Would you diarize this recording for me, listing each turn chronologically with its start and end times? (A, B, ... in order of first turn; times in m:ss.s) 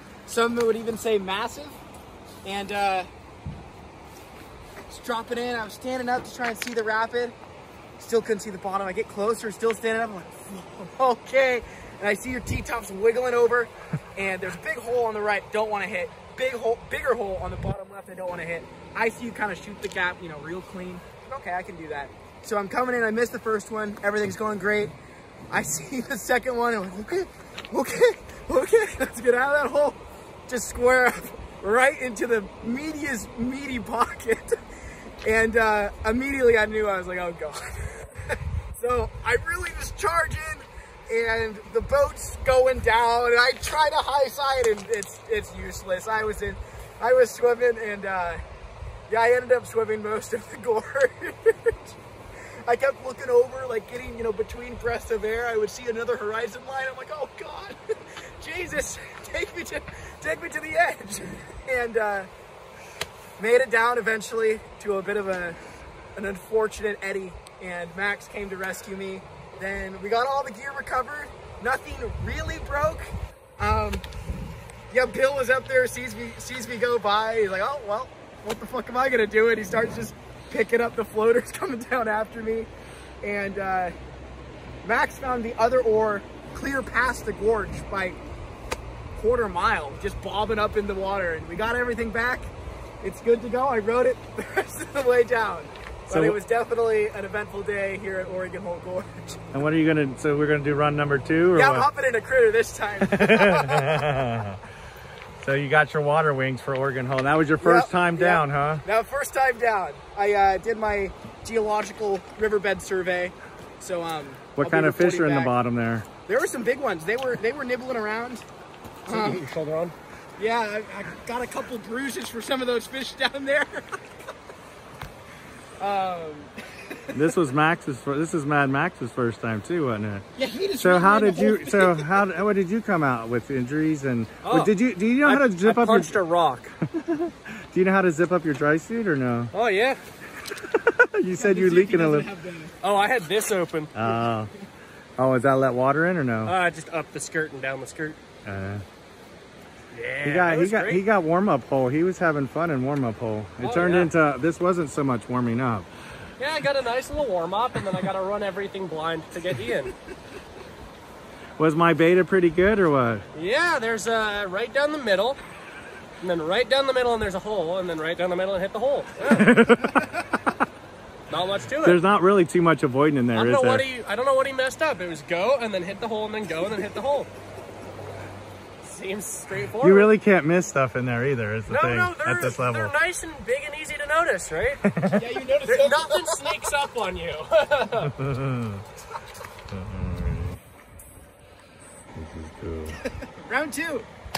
0:00.2-0:01.8 A
0:02.4-0:03.1 A
0:04.9-0:07.3 A
0:08.0-0:24.9 A
0:25.5-0:34.6 A
0:35.2-0:48.4 A
0:49.1-0:52.0 A
0:52.6-0:57.8 A
0:58.4-1:02.3 A
1:03.4-1:05.6 A
1:06.2-1:14.0 A
1:14.9-1:22.7 A
1:23.2-1:23.9 A
1:24.8-1:28.2 A
1:29.2-1:32.5 A
1:33.0-1:39.4 A
1:36.1-1:36.4 B
1:39.5-1:41.9 B
1:41.5-1:44.0 A
1:43.0-1:44.6 B
1:45.4-1:48.8 B
1:47.6-1:55.5 A
1:54.6-1:56.1 B
1:56.2-1:58.4 A
1:59.0-1:59.9 C
1:59.1-1:59.4 A
2:00.4-2:04.0 A
2:05.8-2:07.2 A
2:07.1-2:10.2 B
2:10.4-2:12.1 A
2:10.8-2:16.2 B
2:14.4-2:16.7 C
2:16.9-2:19.5 B
2:19.5-2:20.0 C
2:20.5-2:22.3 B
2:21.3-2:22.7 A
2:22.8-2:23.9 C
2:23.9-2:24.5 B
2:25.2-2:26.5 B
2:26.4-2:28.2 C
2:28.4-2:28.8 B
2:29.9-2:31.0 C
2:30.2-2:35.9 B
2:33.6-2:34.1 C
2:36.4-2:39.9 C
2:41.6-2:43.2 B
2:43.3-2:45.4 C
2:46.2-2:49.5 C
2:49.3-2:50.6 B
2:51.3-2:52.0 C
2:51.8-2:53.8 B
2:53.3-2:57.3 C
2:58.8-3:00.1 C
2:59.8-3:02.9 B
3:01.7-3:04.8 C
3:04.8-3:05.3 B
3:05.1-3:06.6 A
3:05.6-3:08.1 C
3:08.0-3:08.8 B
3:09.7-3:10.6 B
3:12.1-3:13.0 B
3:13.3-3:14.1 A